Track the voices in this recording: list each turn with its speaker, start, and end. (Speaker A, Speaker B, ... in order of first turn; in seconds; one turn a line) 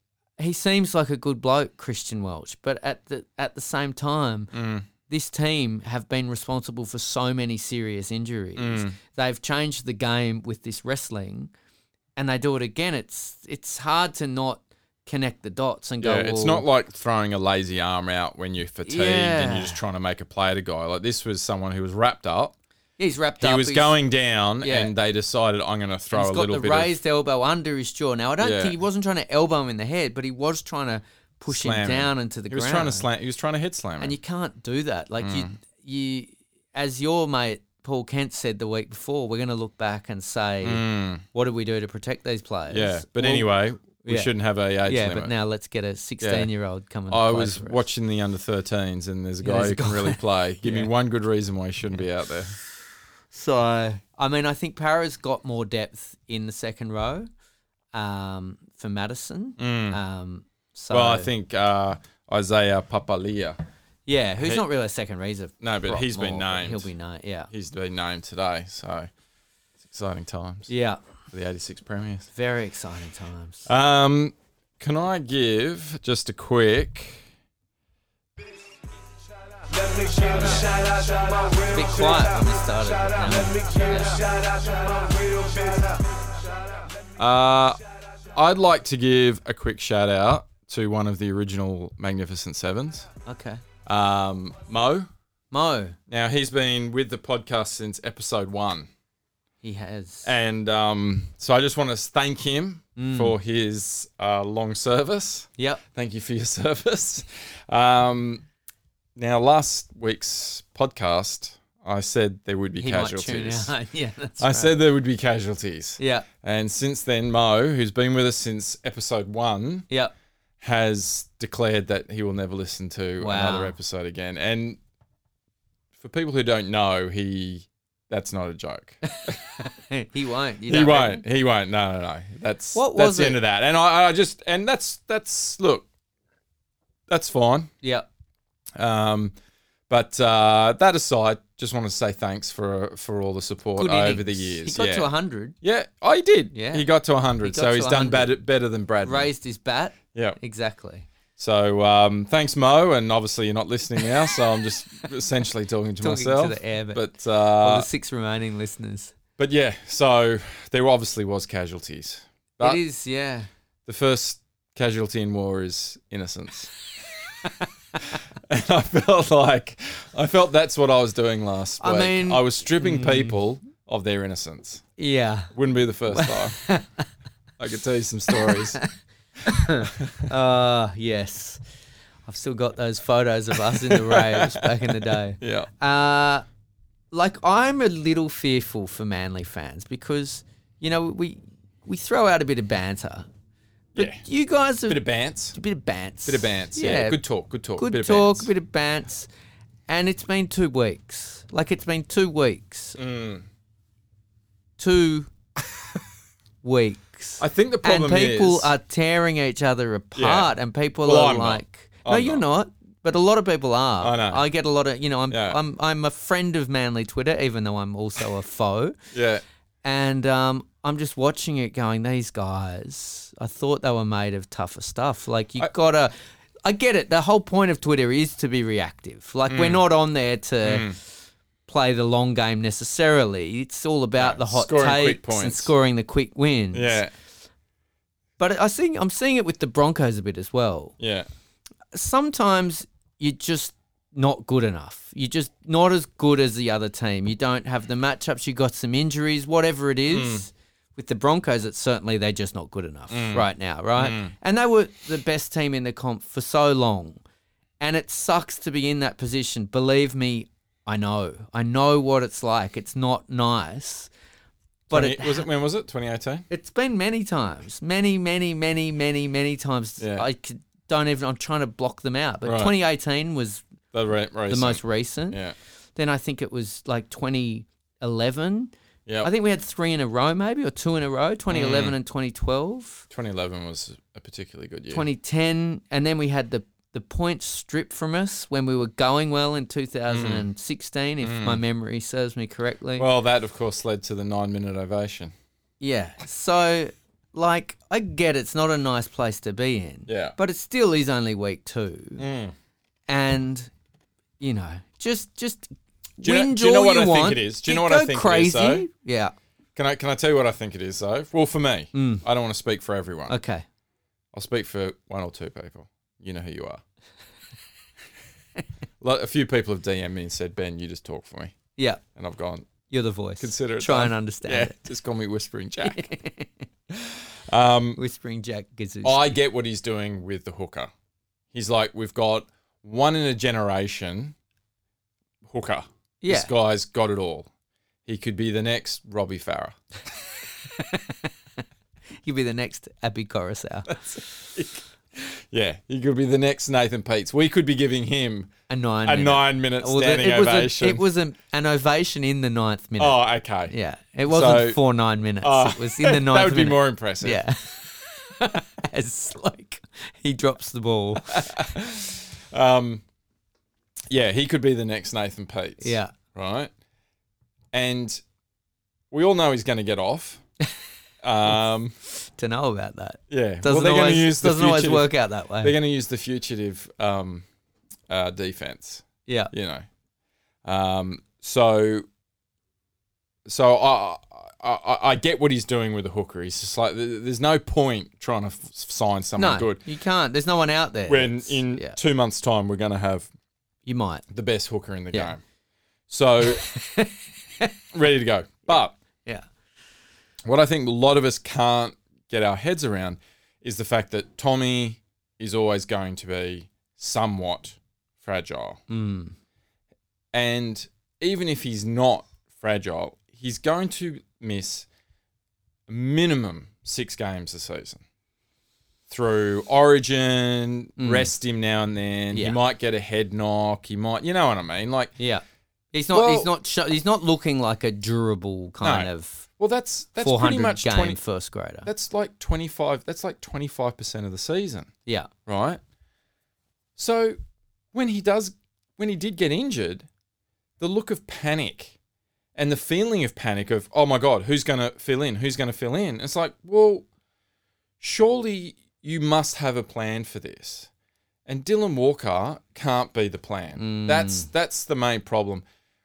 Speaker A: 0.4-4.5
Speaker B: 4.5-4.9
Speaker A: 5.1-11.5
Speaker B: 8.6-9.0
Speaker A: 12.2-16.6
Speaker B: 16.0-22.5
Speaker A: 18.9-19.8
Speaker A: 23.0-23.9
Speaker B: 23.4-26.9
Speaker A: 24.6-24.9
Speaker A: 26.1-33.1
Speaker B: 28.4-28.8
Speaker B: 31.5-34.1
Speaker A: 34.0-44.3
Speaker B: 35.2-35.5
Speaker B: 40.6-41.2
Speaker B: 42.7-45.3
Speaker A: 44.9-47.8
Speaker B: 46.2-46.5
Speaker B: 47.1-52.5
Speaker A: 49.4-50.9
Speaker A: 53.3-57.3
Speaker A: 57.9-61.3
Speaker B: 59.6-60.0
Speaker B: 60.9-63.6
Speaker A: 64.0-67.5
Speaker B: 65.6-66.9
Speaker B: 67.5-69.1
Speaker B: 69.8-70.7
Speaker A: 70.7-71.0
Speaker B: 71.3-72.3
Speaker A: 72.3-73.7
Speaker B: 73.7-77.3
Speaker C: 79.8-82.2
Speaker A: 81.7-84.2
Speaker C: 83.3-86.0
Speaker B: 87.2-87.8
Speaker B: 88.3-93.1
Speaker A: 93.2-93.6
Speaker B: 93.8-95.1
Speaker A: 95.5-96.0
Speaker B: 96.1-98.9
Speaker A: 99.6-100.3
Speaker B: 100.2-108.4
Speaker A: 103.0-103.3
Speaker A: 105.6-105.8
Speaker B: 109.2-113.7
Speaker A: 112.8-114.7
Speaker B: 114.4-119.9
Speaker A: 116.0-116.3
Speaker B: 120.6-124.8
Speaker A: 123.2-123.8
Speaker B: 126.0-129.3
Speaker A: 129.1-131.2
Speaker B: 130.7-135.9
Speaker A: 132.8-133.4
Speaker B: 137.1-137.7
Speaker B: 138.8-139.3
Speaker B: 139.9-145.1
Speaker A: 143.8-145.6
Speaker B: 145.6-149.3
Speaker A: 146.5-146.9
Speaker A: 147.4-148.3
Speaker A: 149.0-151.1
Speaker B: 150.1-150.4
Speaker B: 151.4-157.9
Speaker A: 156.0-159.2
Speaker B: 159.4-162.8
Speaker A: 162.6-163.5
Speaker B: 163.9-166.7
Speaker B: 168.5-174.8
Speaker A: 171.8-173.4
Speaker A: 175.0-175.5
Speaker B: 175.5-176.6
Speaker A: 176.1-177.1
Speaker B: 177.6-178.8
Speaker A: 178.3-178.9
Speaker A: 179.4-181.6
Speaker B: 179.8-180.3
Speaker A: 182.2-186.4
Speaker B: 183.6-185.7
Speaker A: 187.1-193.3
Speaker B: 193.9-194.2
Speaker A: 194.0-195.0
Speaker B: 194.9-195.6
Speaker A: 195.5-197.2
Speaker B: 196.2-198.5
Speaker A: 197.8-199.3
Speaker A: 199.9-203.0
Speaker B: 203.0-203.5
Speaker A: 204.8-205.3
Speaker A: 206.6-219.0
Speaker B: 207.4-208.7
Speaker B: 210.2-212.4
Speaker B: 214.0-214.4
Speaker B: 215.3-215.6
Speaker B: 219.1-219.4
Speaker A: 219.8-226.1
Speaker A: 226.6-231.0
Speaker B: 229.5-229.8
Speaker B: 230.6-231.0
Speaker A: 231.7-237.0
Speaker B: 234.2-235.7
Speaker B: 236.7-237.1
Speaker A: 238.4-240.9
Speaker B: 241.0-241.3
Speaker A: 241.9-257.2
Speaker B: 250.1-250.4
Speaker B: 253.1-254.3
Speaker A: 257.8-264.1
Speaker A: 264.9-265.5
Speaker B: 264.9-266.5
Speaker A: 266.5-273.6
Speaker B: 270.0-270.2
Speaker B: 272.4-272.7
Speaker B: 273.9-275.5
Speaker A: 274.5-275.4
Speaker A: 276.0-283.1
Speaker B: 281.5-281.9
Speaker B: 283.1-285.1
Speaker A: 284.9-293.1
Speaker B: 290.1-290.4
Speaker B: 291.2-291.6
Speaker B: 293.0-295.3
Speaker A: 295.8-302.2
Speaker B: 300.1-300.3
Speaker B: 302.2-302.5
Speaker A: 303.1-303.7
Speaker A: 304.4-309.3
Speaker B: 306.2-308.9
Speaker B: 309.8-313.4
Speaker A: 311.9-312.2
Speaker A: 313.3-313.6
Speaker B: 314.3-316.8
Speaker B: 319.0-321.6
Speaker A: 321.8-322.0
Speaker B: 322.1-322.7
Speaker A: 322.9-324.8
Speaker B: 323.4-326.1
Speaker A: 325.8-326.6
Speaker B: 326.9-328.0
Speaker A: 328.0-329.4
Speaker B: 329.0-330.9
Speaker B: 331.5-334.3
Speaker B: 335.5-337.5
Speaker A: 336.2-336.5
Speaker B: 338.0-339.8
Speaker A: 340.6-341.3
Speaker A: 342.2-344.2
Speaker B: 343.9-348.5
Speaker A: 348.7-361.6
Speaker B: 349.0-351.0
Speaker B: 353.0-353.7
Speaker B: 354.3-354.8
Speaker B: 355.4-357.4
Speaker B: 361.2-363.0
Speaker B: 364.1-366.7
Speaker A: 365.8-366.1
Speaker B: 367.7-368.2
Speaker B: 369.1-370.4
Speaker B: 371.2-371.9
Speaker A: 372.2-375.8
Speaker B: 373.3-377.4
Speaker B: 378.1-379.9
Speaker A: 379.2-379.5
Speaker B: 380.6-382.0
Speaker B: 383.4-389.8
Speaker A: 389.4-392.0
Speaker B: 391.1-393.3
Speaker A: 393.9-394.2
Speaker B: 394.3-395.4
Speaker B: 396.1-396.7
Speaker A: 396.5-397.7
Speaker B: 397.9-398.9
Speaker B: 400.4-408.8
Speaker A: 408.9-409.3
Speaker B: 410.3-414.9
Speaker B: 415.9-418.0
Speaker B: 419.1-425.1
Speaker A: 421.0-421.3
Speaker A: 422.3-422.6
Speaker A: 425.2-429.5
Speaker B: 426.1-426.5
Speaker B: 428.8-431.2
Speaker A: 430.2-431.9
Speaker B: 431.9-434.9
Speaker B: 435.5-435.8
Speaker B: 437.0-437.4
Speaker B: 437.9-440.1
Speaker B: 440.8-441.9
Speaker B: 442.6-447.0
Speaker B: 448.0-450.9
Speaker B: 451.5-455.6
Speaker A: 453.8-454.5